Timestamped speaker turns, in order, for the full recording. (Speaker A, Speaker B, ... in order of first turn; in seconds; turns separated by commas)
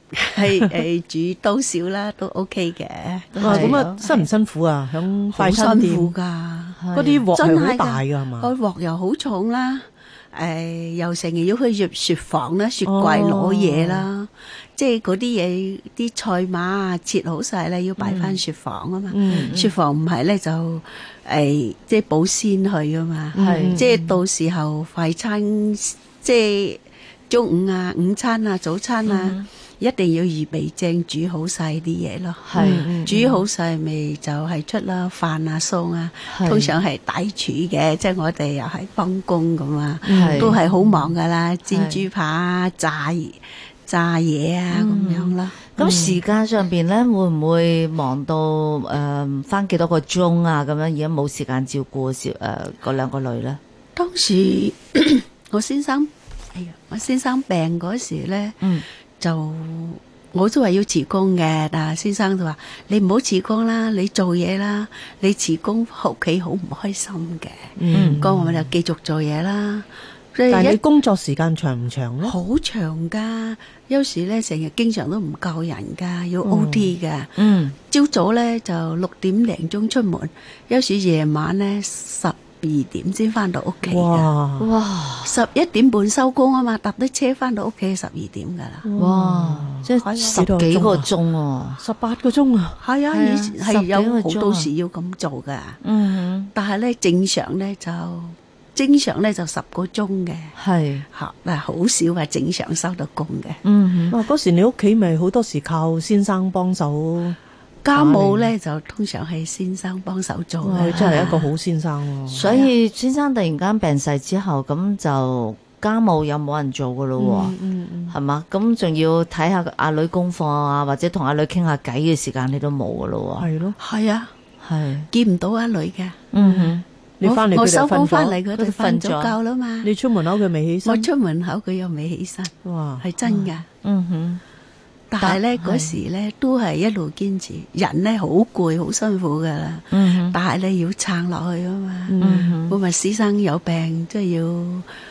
Speaker A: 0.1-4.3, Speaker B: 0.4-0.8, Speaker C: 3.4-3.8, Speaker B: 3.4-6.1, Speaker A: 5.3-6.8, Speaker C: 6.8-7.2, Speaker B: 6.9-8.5, Speaker A: 7.3-46.1, Speaker B: 12.8-14.1, Speaker B: 18.0-18.4, Speaker B: 19.1-19.6, Speaker C: 19.3-19.7, Speaker B: 23.3-23.9, Speaker C: 23.4-23.9, Speaker C: 29.1-29.4, Speaker C: 32.5-33.2, Speaker B: 32.6-33.2, Speaker C: 36.3-36.7, Speaker B: 40.0-40.6, Speaker C: 40.1-40.6, Speaker C: 41.7-42.0, Speaker C: 44.7-53.6, Speaker B: 45.8-46.2, Speaker A: 54.0-58.6, Speaker A: 59.2-70.8, Speaker B: 67.8-68.5, Speaker C: 67.9-68.2, Speaker B: 70.5-72.3, Speaker A: 72.2-77.3, Speaker B: 76.4-76.9, Speaker C: 77.4-77.8, Speaker A: 77.9-84.3, Speaker B: 83.9-84.7, Speaker C: 84.6-85.4, Speaker A: 85.2-88.9, Speaker B: 88.8-91.1, Speaker C: 89.0-91.8, Speaker A: 90.0-90.5, Speaker B: 91.8-92.8, Speaker A: 92.8-95.8, Speaker C: 93.1-94.7, Speaker C: 95.8-96.5, Speaker A: 96.5-100.5, Speaker C: 100.6-101.0, Speaker A: 101.1-103.6, Speaker C: 103.6-104.2, Speaker B: 104.1-107.4, Speaker A: 107.8-111.5, Speaker B: 107.9-108.5, Speaker B: 110.6-112.6, Speaker C: 110.9-111.3, Speaker C: 112.3-117.5, Speaker A: 112.4-112.7, Speaker B: 117.2-118.2, Speaker C: 118.1-123.5, Speaker B: 123.4-123.8, Speaker A: 123.8-124.3, Speaker C: 124.6-125.1, Speaker A: 125.1-126.2, Speaker C: 126.3-126.8, Speaker B: 126.4-128.4, Speaker A: 127.2-129.9, Speaker C: 128.5-129.4, Speaker B: 129.8-131.1, Speaker A: 130.8-133.7, Speaker B: 132.6-133.0, Speaker C: 133.3-134.4, Speaker A: 135.1-144.9, Speaker C: 135.2-135.9, Speaker C: 139.9-140.4, Speaker B: 142.1-142.6, Speaker C: 142.2-142.8